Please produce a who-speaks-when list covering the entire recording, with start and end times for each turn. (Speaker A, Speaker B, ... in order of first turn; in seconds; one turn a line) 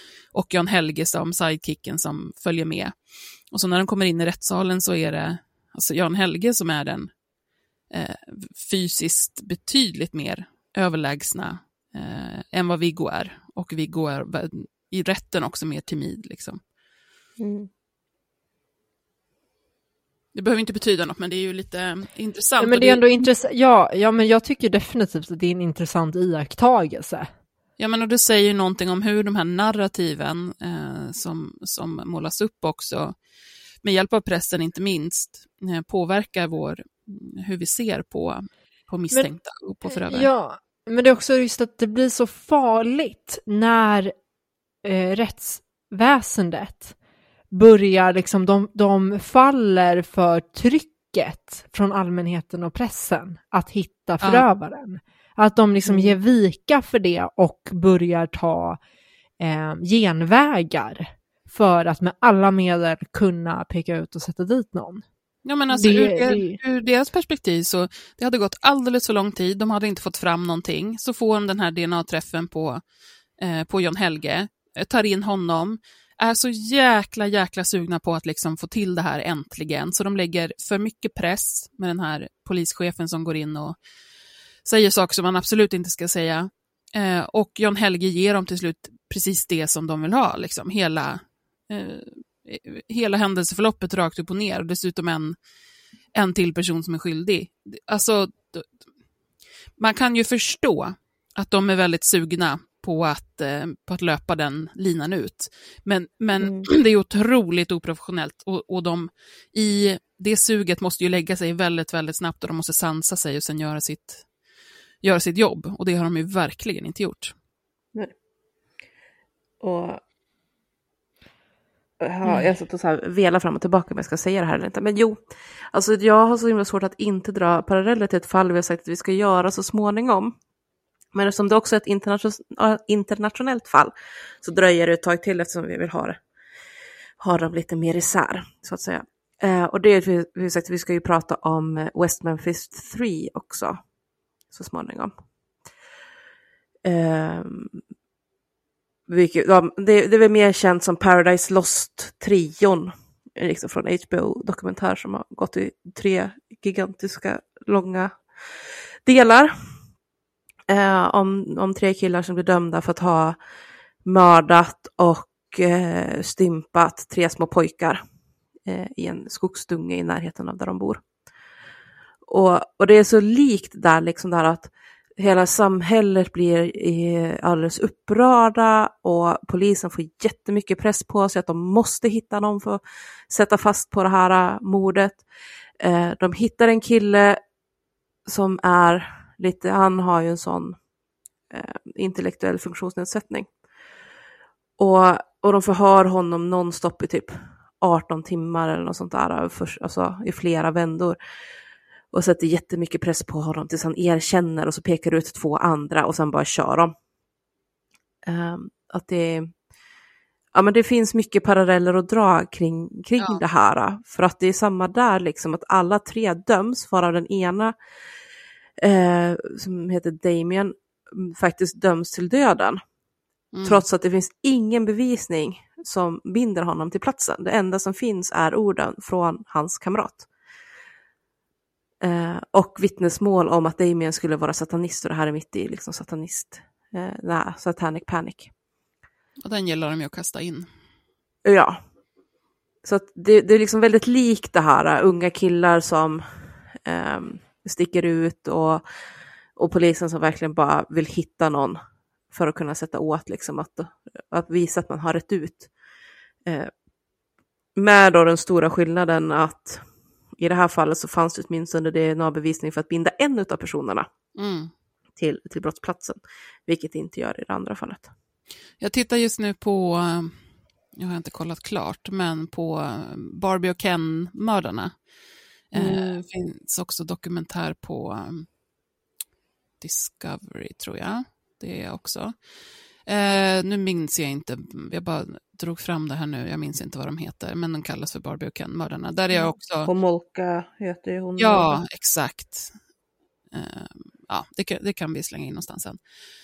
Speaker A: 0.3-2.9
Speaker A: 3.5-7.1
Speaker A: 7.9-16.6
Speaker B: 17.4-17.7
Speaker A: 20.3-23.0
Speaker C: 22.6-27.3
Speaker A: 27.8-33.1
Speaker A: 33.8-40.3
Speaker C: 39.9-44.1
Speaker C: 44.8-46.9
Speaker C: 47.5-58.8
Speaker C: 59.4-65.0
Speaker A: 65.5-72.8
Speaker C: 65.7-66.6
Speaker A: 73.4-83.8
Speaker A: 84.7-95.4
Speaker A: 96.1-98.7
Speaker A: 99.8-114.2
Speaker A: 115.0-117.3
Speaker B: 119.6-120.0
Speaker B: 122.0-125.2
Speaker B: 125.7-130.3
Speaker B: 131.1-136.2
Speaker B: 137.2-143.8
Speaker B: 144.5-145.1
Speaker B: 146.8-147.8
Speaker B: 149.1-158.2
Speaker B: 159.1-159.5
Speaker B: 160.7-163.4
Speaker B: 164.1-168.0
Speaker B: 168.7-171.0
Speaker B: 172.3-185.2
Speaker B: 185.8-187.4
Speaker B: 188.3-190.8
Speaker B: 191.5-193.5
Speaker B: 194.8-201.2
Speaker B: 202.1-206.9
Speaker B: 208.3-209.5
Speaker B: 210.5-217.8
Speaker B: 218.8-222.8
Speaker A: 223.5-223.8
Speaker B: 223.7-230.2
Speaker B: 232.0-238.5
Speaker A: 239.4-240.7
Speaker B: 241.4-241.8
Speaker B: 242.8-246.2
Speaker B: 246.8-248.8
Speaker B: 249.6-251.8
Speaker B: 252.3-255.7
Speaker B: 256.5-256.7
Speaker B: 257.8-259.8
Speaker B: 260.4-264.1
Speaker A: 264.4-264.7
Speaker B: 265.2-268.1
Speaker A: 268.8-270.4
Speaker A: 270.9-274.9
Speaker A: 275.7-278.5
Speaker B: 275.8-276.2
Speaker A: 279.8-282.4
Speaker A: 283.1-289.9
Speaker B: 289.4-291.8
Speaker A: 291.4-292.8
Speaker A: 293.5-296.0